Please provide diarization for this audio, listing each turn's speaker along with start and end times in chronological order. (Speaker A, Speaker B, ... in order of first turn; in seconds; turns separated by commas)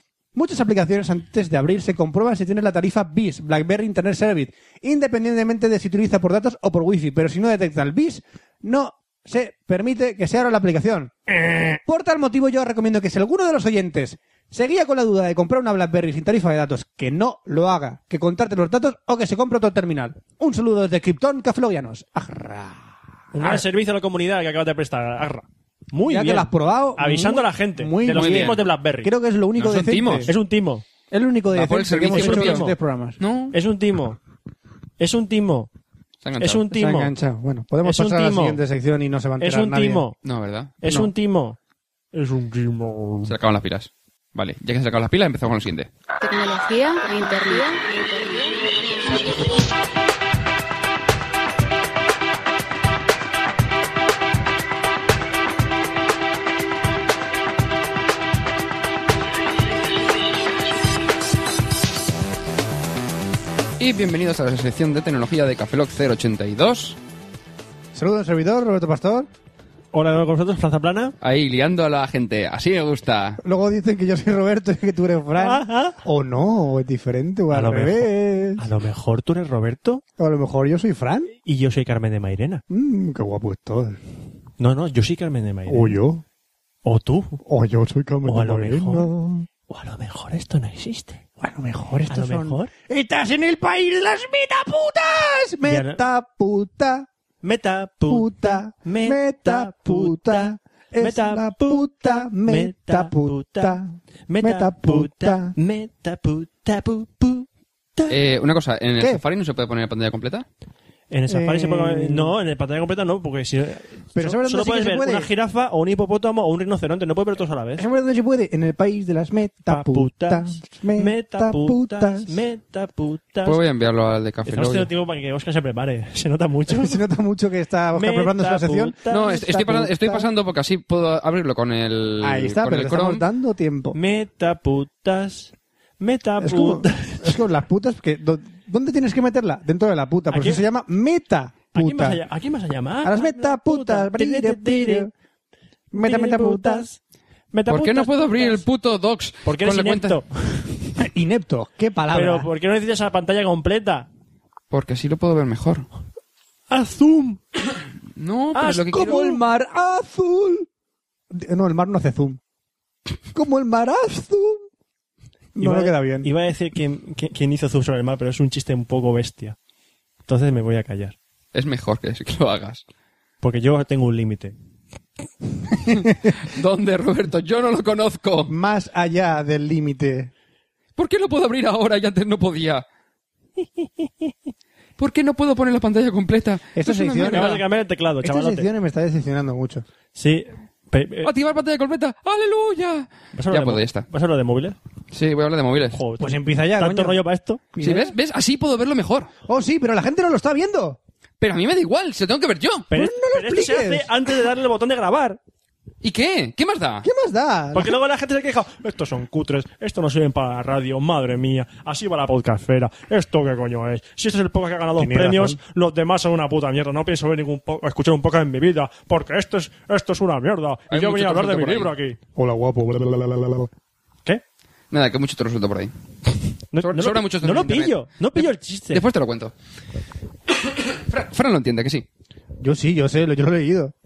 Speaker A: 0.3-11.1, Speaker B: 11.4-11.8, Speaker A: 11.8-23.6, Speaker B: 23.3-29.1, Speaker A: 26.0-30.3, Speaker C: 28.1-28.6, Speaker C: 29.6-30.3, Speaker B: 30.3-30.8, Speaker A: 31.1-33.2, Speaker C: 31.5-32.6, Speaker B: 32.1-32.8, Speaker C: 33.2-33.5, Speaker B: 33.5-34.2, Speaker B: 35.0-35.7, Speaker C: 36.2-36.6, Speaker B: 36.4-37.1, Speaker A: 36.7-40.0, Speaker B: 37.8-38.6, Speaker B: 39.4-40.1, Speaker C: 40.2-40.7, Speaker B: 40.8-41.6, Speaker B: 42.1-43.3, Speaker C: 43.2-45.9, Speaker D: 46.2-48.8, Speaker C: 63.8-67.0, Speaker A: 67.9-69.3, Speaker B: 69.9-71.1, Speaker C: 71.2-73.4, Speaker A: 73.4-78.6, Speaker B: 75.4-76.0, Speaker B: 77.5-80.0, Speaker A: 80.2-81.3, Speaker B: 81.4-82.6, Speaker A: 82.7-84.0, Speaker B: 84.6-86.0, Speaker A: 85.7-86.2, Speaker B: 86.8-87.4, Speaker A: 87.4-89.5, Speaker B: 88.2-89.1, Speaker B: 89.7-91.2, Speaker A: 91.4-97.1, Speaker B: 92.1-92.7, Speaker B: 95.6-96.0, Speaker B: 97.4-108.2, Speaker A: 98.1-105.5, Speaker C: 108.1-110.4, Speaker B: 111.1-117.8, Speaker A: 111.3-112.3, Speaker A: 114.1-115.3, Speaker A: 117.8-122.3, Speaker B: 119.7-123.6, Speaker C: 123.4-124.9, Speaker B: 124.5-127.0, Speaker A: 126.7-130.3, Speaker B: 127.9-129.4, Speaker C: 129.1-133.2, Speaker A: 132.2-134.0, Speaker B: 133.9-137.4, Speaker A: 136.4-142.2, Speaker B: 140.3-140.6, Speaker B: 141.7-145.1, Speaker A: 143.0-145.1, Speaker A: 145.9-146.9, Speaker B: 145.9-147.0, Speaker B: 147.5-148.6, Speaker C: 147.7-150.2, Speaker B: 149.4-151.0, Speaker A: 151.0-152.5, Speaker B: 152.1-154.1, Speaker C: 154.7-155.8, Speaker B: 156.7-157.4, Speaker C: 158.2-159.3, Speaker A: 158.6-160.7, Speaker B: 158.6-159.3, Speaker A: 161.3-162.4, Speaker A: 163.3-164.6, Speaker A: 165.6-166.3, Speaker B: 165.6-169.6, Speaker B: 170.3-171.2, Speaker C: 171.5-172.8, Speaker B: 173.4-174.5, Speaker C: 176.4-178.5, Speaker A: 178.5-180.3, Speaker C: 180.9-182.8, Speaker C: 185.0-187.6, Speaker A: 186.7-187.6, Speaker B: 187.2-188.7, Speaker A: 188.2-189.8, Speaker B: 190.1-191.3, Speaker C: 191.2-194.1, Speaker B: 193.3-194.8, Speaker C: 195.1-196.0, Speaker B: 195.9-197.6, Speaker A: 196.2-198.1, Speaker C: 197.8-199.3, Speaker A: 199.5-201.0, Speaker C: 201.4-202.9, Speaker B: 202.9-205.4, Speaker A: 202.9-204.1, Speaker C: 206.0-207.1, Speaker A: 207.0-208.0, Speaker B: 207.7-222.2, Speaker A: 215.0-215.6, Speaker C: 220.9-221.9, Speaker A: 222.3-223.7, Speaker C: 224.9-225.9, Speaker B: 226.7-229.0, Speaker C: 226.8-229.5, Speaker C: 230.6-232.1, Speaker A: 232.6-233.9